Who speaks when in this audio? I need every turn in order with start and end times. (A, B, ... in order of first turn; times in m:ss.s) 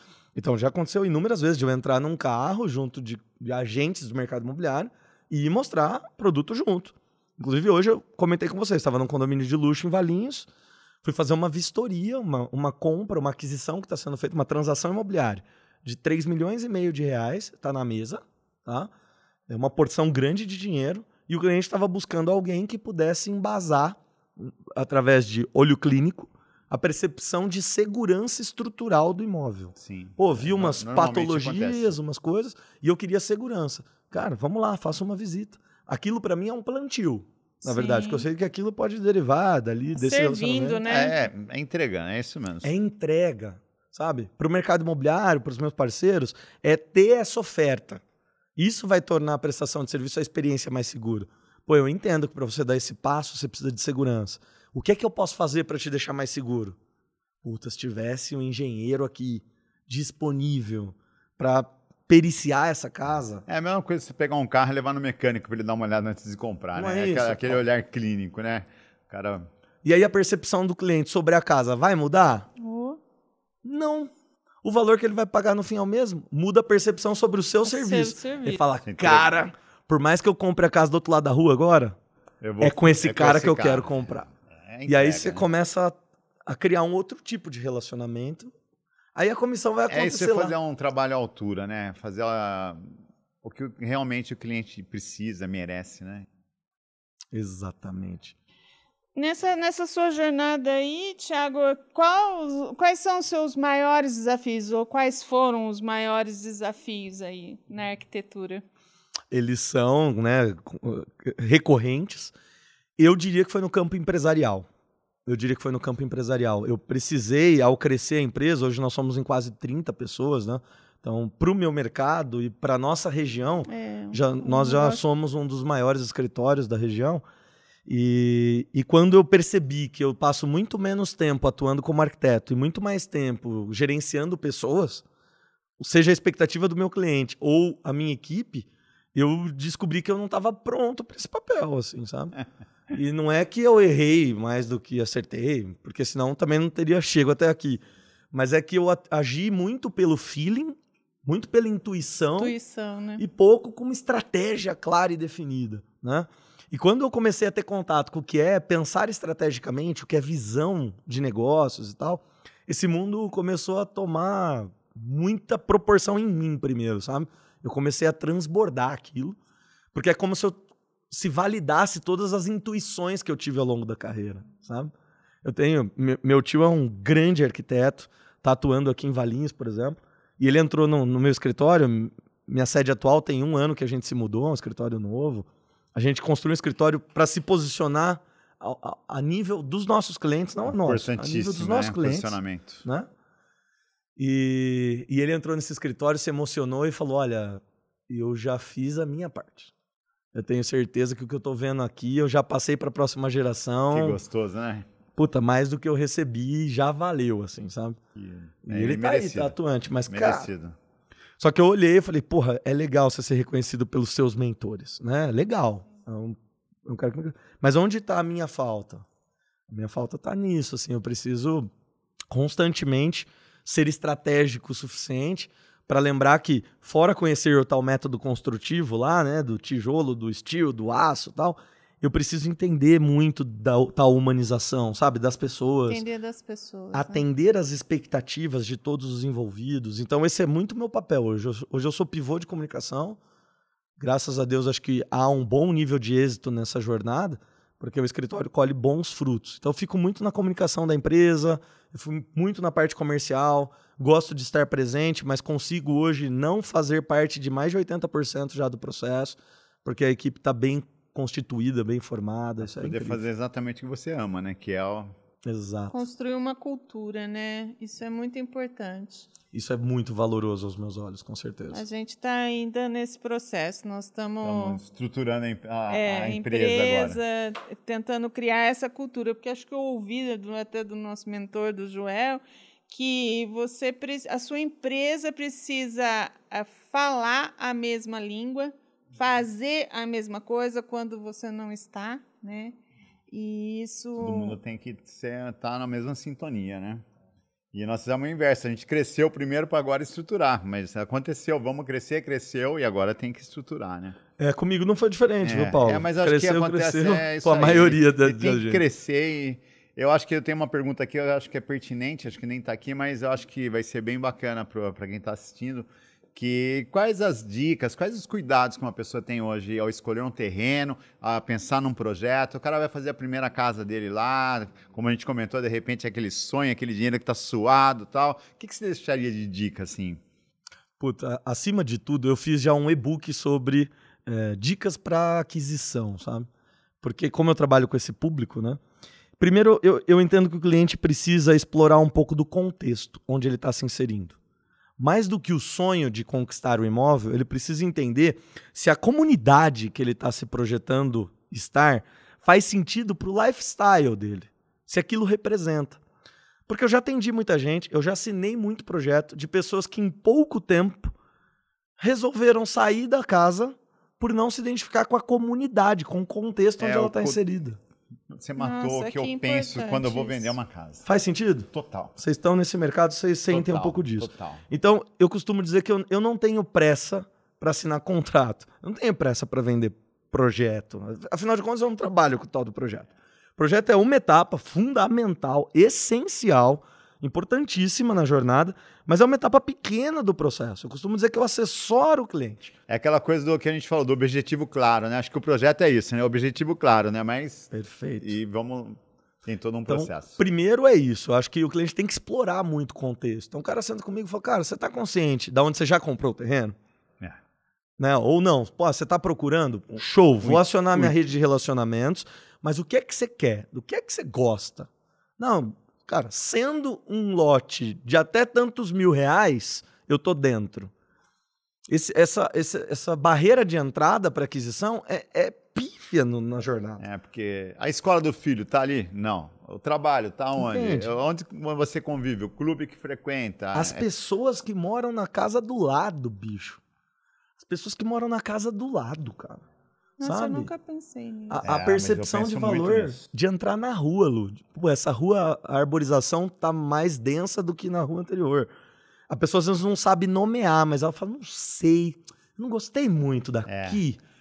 0:00.4-0:10.5 A
0:11.0-0:18.9 A
0:19.5-0:40.8 A
0:29.8-0:32.0 B
0:37.6-0:38.2 C
0:40.0-0:41.2 C
0:40.9-0:42.7 B
0:42.6-0:48.0 A
0:48.6-0:56.8 A
0:57.4-1:03.4 A
1:03.5-1:09.5 B
1:06.8-1:07.6 A
1:09.8-1:12.5 A
1:12.6-1:13.0 C
1:13.6-1:14.1 A
1:14.6-1:22.0 A
1:17.7-1:18.6 C
1:18.9-1:19.4 B
1:22.4-1:25.5 B
1:22.6-1:24.3 A
1:24.9-1:28.5 A
1:29.2-1:30.6 A
1:29.9-1:32.9 B
1:33.4-1:36.3 B
1:37.3-1:38.4 A
1:39.2-1:48.6 C
1:49.3-1:52.3 A
1:53.0-1:54.7 A
1:55.3-2:07.2 A
2:03.7-2:05.0 C
2:07.9-2:15.0 A
2:15.8-2:22.4 A
2:22.9-2:32.5 A
2:32.4-2:33.2 C
2:33.2-2:49.4 A
2:49.9-2:54.9 A
2:55.4-3:13.1 A
3:10.7-3:12.8 B
3:14.2-3:19.7 A
3:20.3-3:24.2 A
3:23.9-3:24.9 B
3:25.2-3:28.0 A
3:28.2-3:29.6 B
3:28.6-3:30.5 A
3:30.1-3:30.8 B
3:31.4-3:39.0 A
3:39.7-3:41.7 A
3:42.3-3:56.0 A
3:55.9-3:57.2 C
3:56.9-4:03.2 A
4:04.0-4:23.2 A
4:22.6-4:25.1 B
4:25.4-4:26.0 A
4:25.9-4:29.3 C
4:29.5-4:31.8 A
4:31.7-4:34.8 C
4:34.4-4:37.2 B
4:35.9-4:52.8 C
4:53.3-4:54.6 C
4:54.2-4:57.0 B
4:57.7-5:04.2 B
5:04.4-5:08.8 A
5:05.4-5:30.2 B
5:31.0-5:36.5 A
5:37.0-5:38.8 A
5:39.4-5:44.4 A
5:45.0-5:56.0 A
5:56.7-6:01.1 A
6:02.0-6:07.8 A
6:06.8-6:07.4 B
6:08.3-6:11.0 B
6:08.6-6:10.6 C
6:11.0-6:32.7 A
6:11.7-6:12.1 B
6:13.5-6:14.6 B
6:32.9-6:40.4 B
6:37.7-6:38.4 A
6:39.9-6:46.8 A
6:48.0-7:00.9 A
6:50.4-6:51.2 B
7:01.9-7:07.0 A
7:07.0-7:14.0 B
7:10.6-7:11.1 A
7:13.7-7:16.8 A
7:17.6-7:19.6 A
7:20.2-7:21.6 C
7:20.2-7:20.7 A
7:21.5-7:28.7 A
7:21.6-7:23.2 B
7:29.3-7:34.2 A
7:33.7-7:34.0 B